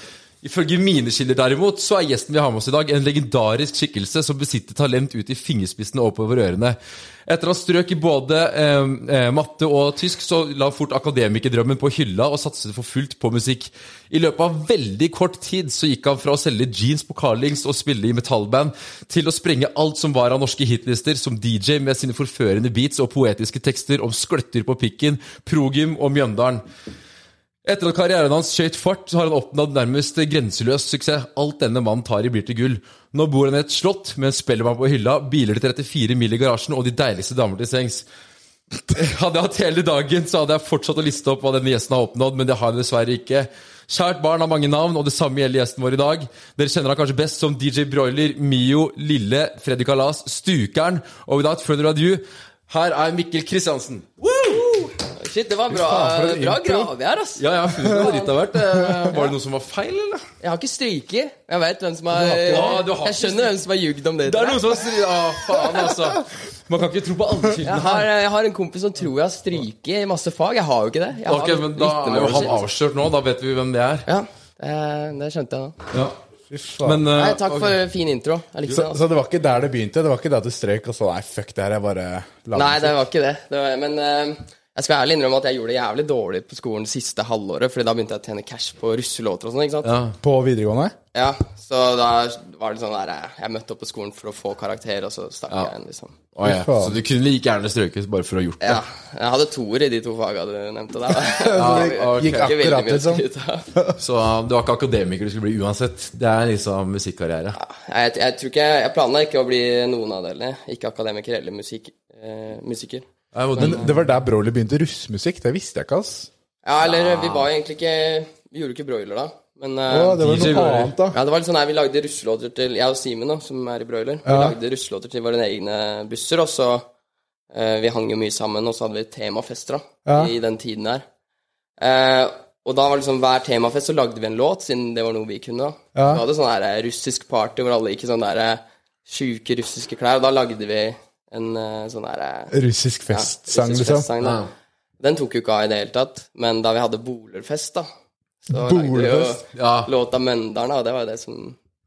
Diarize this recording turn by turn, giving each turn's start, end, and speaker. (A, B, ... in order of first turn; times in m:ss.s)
0:00.4-0:26.6 A
0:27.6-0:38.0 A
0:38.9-0:54.3 A
0:54.4-0:58.3 B
0:55.7-0:56.9 C
0:57.4-1:00.3 A
1:00.4-1:04.6 B
1:02.1-1:02.8 C
1:02.5-1:03.6 A
1:04.2-1:08.1 A
1:07.6-1:12.6 B
1:11.3-1:14.1 A
1:14.1-1:15.8 B
1:16.5-1:17.0 C
1:16.8-1:17.8 A
1:17.2-1:19.0 B
1:18.7-1:23.0 C
1:22.5-1:29.9 B
1:29.8-1:30.2 A
1:30.2-1:31.0 C
1:31.1-1:36.2 B
1:36.4-1:38.8 A
1:36.4-1:37.0 C
1:38.6-1:43.7 B
1:41.3-1:44.0 C
1:41.6-1:42.6 A
1:44.0-1:47.6 A
1:47.6-1:53.9 B
1:53.3-1:53.9 A
1:53.6-1:56.3 C
1:56.6-2:00.2 B
1:56.8-1:57.5 A
1:59.9-2:01.2 C
2:00.2-2:01.0 A
2:01.1-2:06.9 B
2:04.3-2:04.6 C
2:07.5-2:11.0 B
2:10.1-2:10.3 C
2:11.8-2:22.5 B
2:16.0-2:16.2 C
2:22.5-2:24.1 C
2:23.1-2:24.4 B
2:24.2-2:24.5 A
2:25.0-2:27.9 B
2:28.4-2:31.6 B
2:28.5-2:29.4 C
2:29.5-2:29.9 A